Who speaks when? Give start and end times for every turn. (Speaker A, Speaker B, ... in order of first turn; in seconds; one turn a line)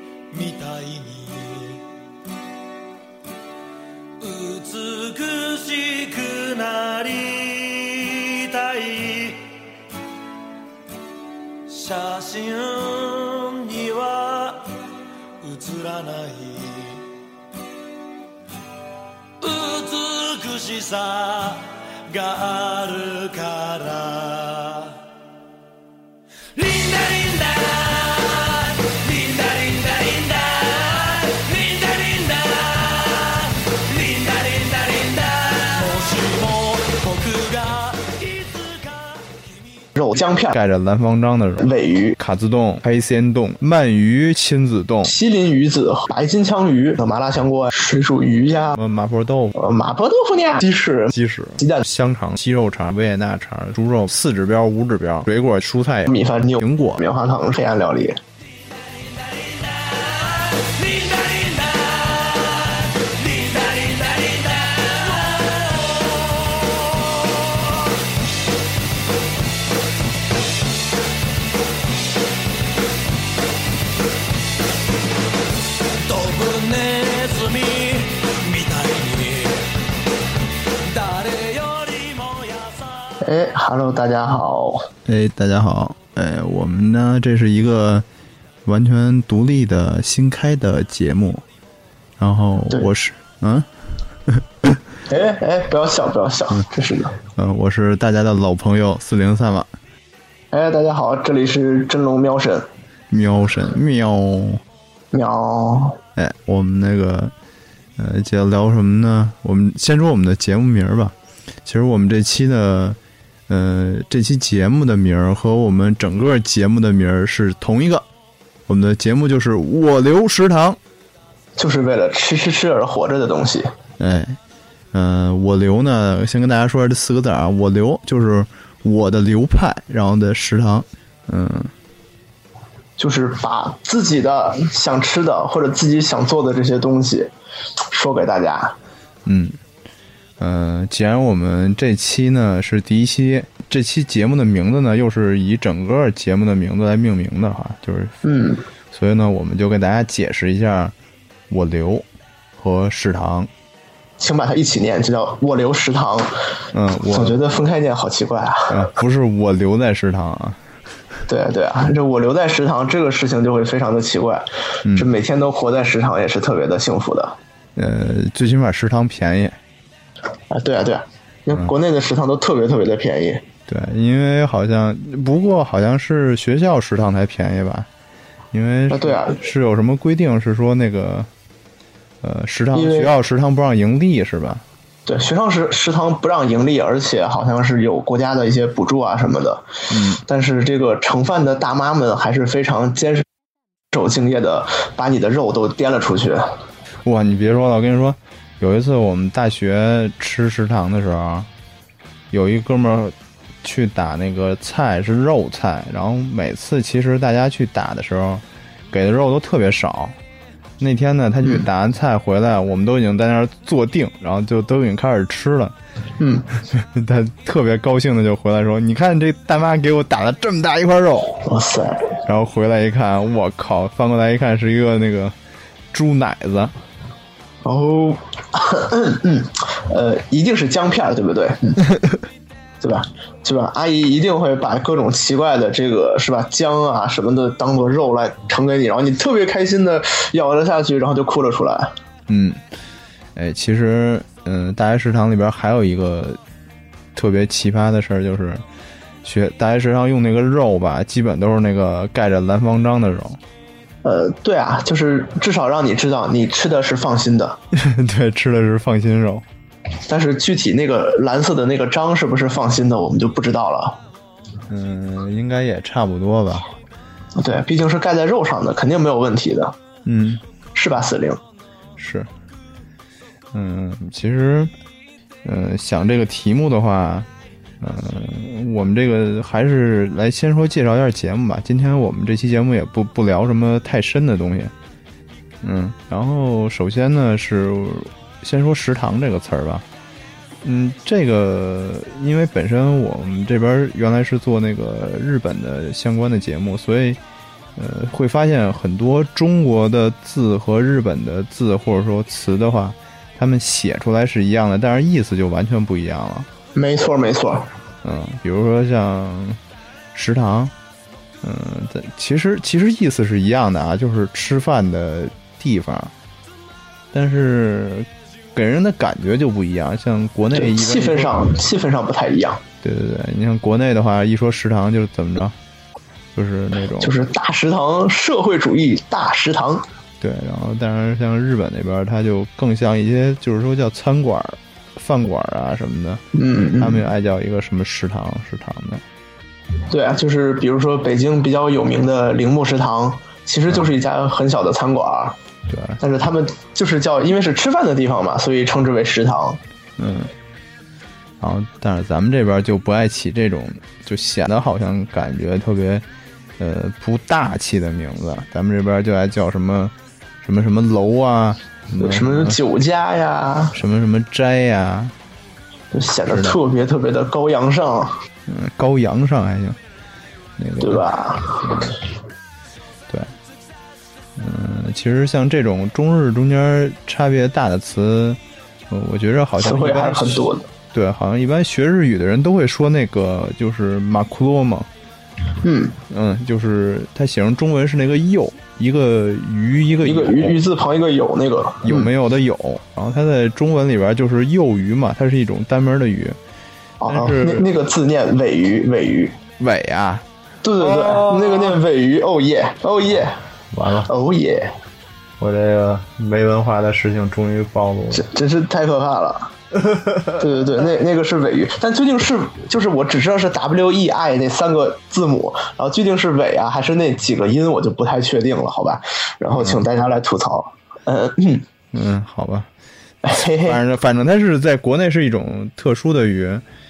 Speaker A: 0.3-1.8
Speaker A: 4.2-9.5
Speaker A: 11.7-14.8
Speaker A: 15.4-17.1
Speaker A: 19.4-25.0
Speaker A: 26.5-39.3
Speaker B: 40.0-40.5
Speaker C: 40.5-45.1
Speaker B: 41.6-42.2
Speaker B: 45.0-48.8
Speaker C: 48.7-49.6
Speaker B: 49.6-51.8
Speaker C: 51.1-57.0
Speaker B: 56.1-58.2
Speaker A: 59.0-67.9
Speaker A: 76.0-79.7
Speaker A: 80.8-83.1
Speaker B: 83.2-84.9
Speaker C: 85.1-88.1
Speaker C: 88.7-91.4
Speaker C: 92.2-93.7
Speaker C: 94.3-94.7
Speaker B: 95.1-97.1
Speaker C: 97.4-99.7
Speaker B: 100.5-102.7
Speaker C: 103.1-104.6
Speaker B: 105.1-106.0
Speaker C: 106.2-107.3
Speaker C: 108.0-111.2
Speaker C: 111.7-113.0
Speaker C: 113.5-118.0
Speaker C: 118.7-120.8
Speaker B: 121.6-123.7
Speaker C: 124.0-124.4
Speaker C: 124.9-131.7
Speaker B: 133.0-137.3
Speaker B: 137.9-138.8
Speaker C: 139.3-139.6
Speaker C: 140.4-148.2
Speaker B: 148.2-148.6
Speaker C: 148.9-150.9
Speaker C: 151.5-152.1
Speaker C: 152.6-153.5
Speaker B: 154.2-156.3
Speaker C: 156.7-157.4
Speaker B: 157.1-158.7
Speaker C: 158.7-160.6
Speaker B: 161.3-167.4
Speaker C: 164.8-165.1
Speaker C: 167.8-169.6
Speaker B: 170.5-173.4
Speaker C: 173.7-177.9
Speaker C: 178.5-181.3
Speaker B: 178.9-179.4
Speaker C: 182.2-184.6
Speaker B: 182.7-183.1
Speaker B: 185.1-189.7
Speaker C: 189.9-190.2
Speaker B: 190.2-193.3
Speaker B: 193.9-196.5
Speaker C: 197.1-201.5
Speaker C: 202.3-210.2
Speaker C: 210.8-215.8
Speaker B: 216.2-216.5
Speaker C: 216.7-221.4
Speaker B: 221.4-222.2
Speaker C: 222.2-225.3
Speaker C: 225.9-226.7
Speaker B: 227.6-231.8
Speaker B: 232.8-241.9
Speaker C: 242.3-242.6
Speaker C: 243.3-246.4
Speaker C: 247.2-248.6
Speaker C: 249.2-253.4
Speaker B: 254.0-257.6
Speaker C: 257.7-259.4
Speaker B: 260.1-264.0
Speaker C: 264.7-266.7
Speaker B: 267.4-269.8
Speaker C: 270.1-270.4
Speaker B: 270.8-271.4
Speaker C: 272.0-272.3
Speaker C: 273.5-274.7
Speaker C: 275.4-277.3
Speaker C: 277.8-284.7
Speaker C: 285.6-289.9
Speaker C: 290.6-297.2
Speaker C: 297.8-306.5
Speaker B: 306.8-307.7
Speaker C: 308.0-309.6
Speaker C: 310.1-310.7
Speaker C: 311.4-316.1
Speaker C: 317.1-321.6
Speaker B: 320.5-322.6
Speaker C: 322.8-325.6
Speaker C: 326.4-327.1
Speaker B: 327.0-329.8
Speaker C: 330.2-336.2
Speaker B: 336.3-337.1
Speaker C: 336.8-339.0
Speaker B: 339.9-345.4
Speaker C: 345.7-346.0
Speaker B: 346.0-349.6
Speaker C: 350.0-350.3
Speaker C: 351.4-356.0
Speaker C: 356.6-362.6
Speaker B: 362.0-363.8
Speaker C: 363.7-365.1
Speaker B: 365.9-368.1
Speaker C: 366.3-366.6
Speaker C: 368.5-369.8
Speaker C: 370.6-371.1
Speaker B: 370.8-371.9
Speaker C: 371.6-372.0
Speaker C: 374.4-384.9
Speaker B: 379.6-380.7
Speaker B: 385.6-386.0
Speaker C: 386.1-390.6
Speaker B: 390.0-392.1
Speaker C: 391.8-396.4
Speaker B: 397.0-399.4
Speaker C: 397.1-397.7
Speaker C: 399.6-400.2
Speaker B: 400.6-403.4
Speaker C: 400.8-401.8
Speaker C: 403.7-404.1
Speaker B: 404.1-404.7
Speaker C: 405.4-408.3
Speaker B: 408.1-409.5
Speaker C: 409.9-410.4
Speaker B: 410.4-421.7
Speaker C: 419.5-419.8
Speaker C: 421.9-422.7
Speaker B: 423.2-423.8
Speaker C: 423.4-426.6